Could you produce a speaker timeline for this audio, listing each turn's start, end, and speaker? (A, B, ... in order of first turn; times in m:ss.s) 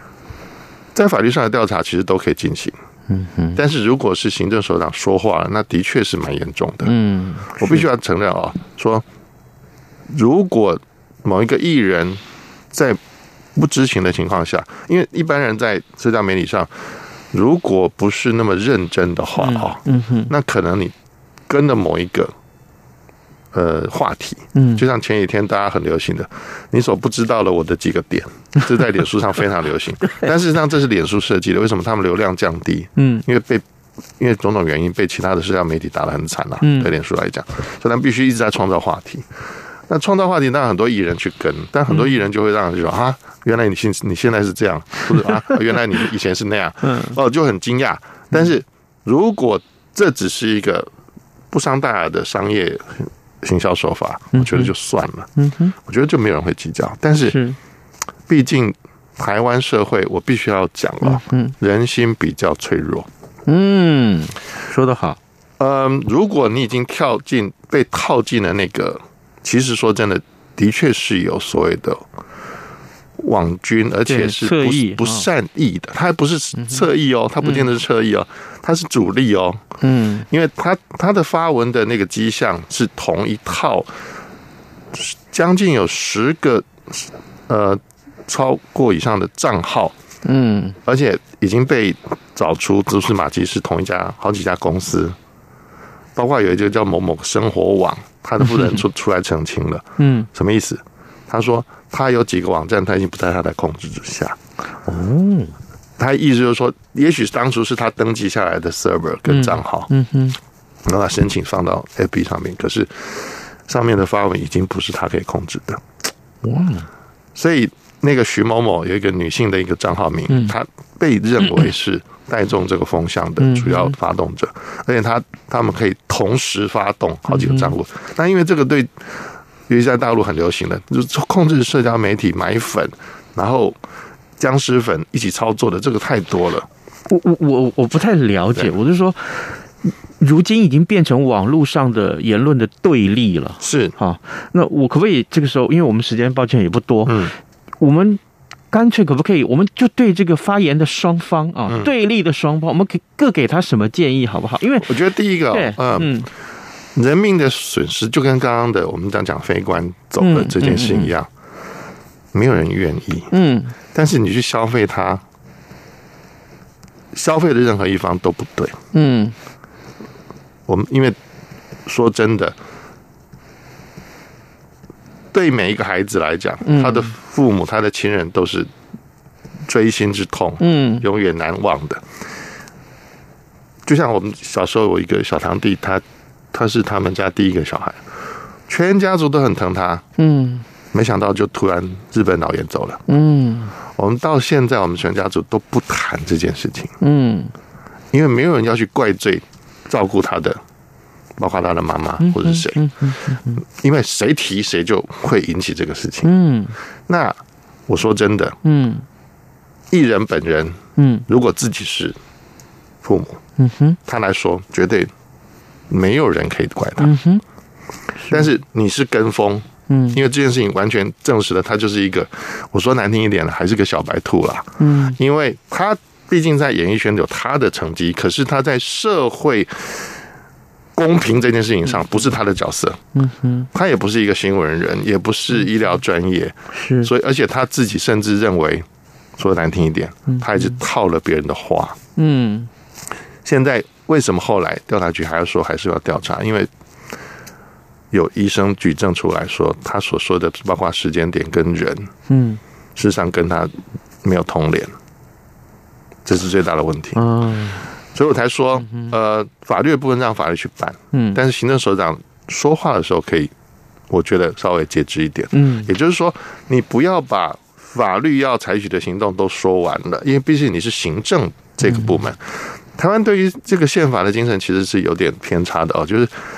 0:00.9-0:02.7 A
0:03.1-0:03.6 B
0:03.5-0:06.9 A
0:06.8-0:07.8 B
0:07.5-0:09.0 A
0:10.1-0:13.0 A
0:13.6-0:16.7 A
0:17.3-0:20.9 A
0:19.4-0:20.3 B
0:21.5-0:22.3 A
0:23.5-0:33.6 A
0:24.6-0:24.8 B
0:33.0-0:33.2 B
0:34.2-0:39.3 A
0:36.6-0:36.9 B
0:39.9-0:50.9 A
0:51.5-0:57.4 A
0:54.3-0:54.7 B
0:55.4-0:55.7 B
0:57.2-0:57.6 B
0:58.3-1:03.1 A
1:01.0-1:01.5 B
1:03.5-1:05.2 B
1:05.6-1:12.0 A
1:13.2-1:19.6 A
1:14.1-1:15.2 B
1:19.8-1:20.2 B
1:20.3-1:23.9 A
1:24.9-1:30.0 A
1:30.2-1:30.8 B
1:30.8-1:35.2 A
1:36.2-1:44.4 A
1:40.0-1:40.3 B
1:44.8-1:45.5 B
1:46.0-1:49.9 A
1:49.3-1:50.4 B
1:50.8-1:55.8 A
1:56.4-1:56.9 B
1:57.3-2:09.0 A
2:03.4-2:03.9 B
2:07.3-2:07.7 B
2:09.7-2:13.8 A
2:14.4-2:16.7 A
2:17.1-2:19.5 B
2:20.2-2:27.3 B
2:23.6-2:23.9 A
2:27.0-2:27.3 A
2:27.8-2:28.2 B
2:28.7-2:34.9 B
2:34.8-2:36.2 A
2:35.5-2:36.3 B
2:37.0-2:41.3 A
2:40.2-2:41.1 B
2:42.3-2:43.3 A
2:43.3-2:43.7 B
2:43.9-2:45.2 A
2:47.1-2:48.8 A
2:48.9-2:49.3 B
2:50.7-2:51.2 A
2:51.8-2:52.6 A
2:55.3-2:58.7 A
2:56.6-2:57.1 B
2:59.7-3:02.0 A
3:00.6-3:01.0 B
3:03.8-3:08.0 A
3:08.7-3:10.0 A
3:10.2-3:10.6 B
3:10.9-3:13.0 A
3:13.1-3:13.7 B
3:13.9-3:16.9 A
3:17.0-3:17.5 B
3:18.1-3:20.6 A
3:21.4-3:23.1 A
3:22.2-3:23.6 B
3:23.6-3:26.3 A
3:26.2-3:26.7 B
3:27.1-3:27.4 A
3:27.9-3:28.6 A
3:28.6-3:29.0 B
3:29.9-3:32.2 A
3:31.0-3:31.2 B
3:33.0-3:33.4 A
3:33.6-3:34.0 B
3:34.0-3:35.1 A
3:35.9-3:37.2 A
3:37.0-3:37.4 B
3:38.3-3:50.0 A
3:39.9-3:40.2 B
3:44.8-3:45.2 B
3:50.9-3:53.0 A
3:53.2-3:53.7 B
3:53.7-3:58.8 A
3:56.7-3:57.1 B
3:59.4-4:02.0 A
4:00.3-4:00.6 B
4:02.2-4:02.7 B
4:03.4-4:06.7 A
4:08.1-4:12.1 A
4:12.3-4:12.6 B
4:13.0-4:14.9 A
4:16.2-4:17.2 A
4:17.2-4:17.8 B
4:18.1-4:23.5 A
4:21.1-4:21.4 B
4:24.1-4:36.3 A
4:25.5-4:25.9 B
4:31.9-4:32.1 B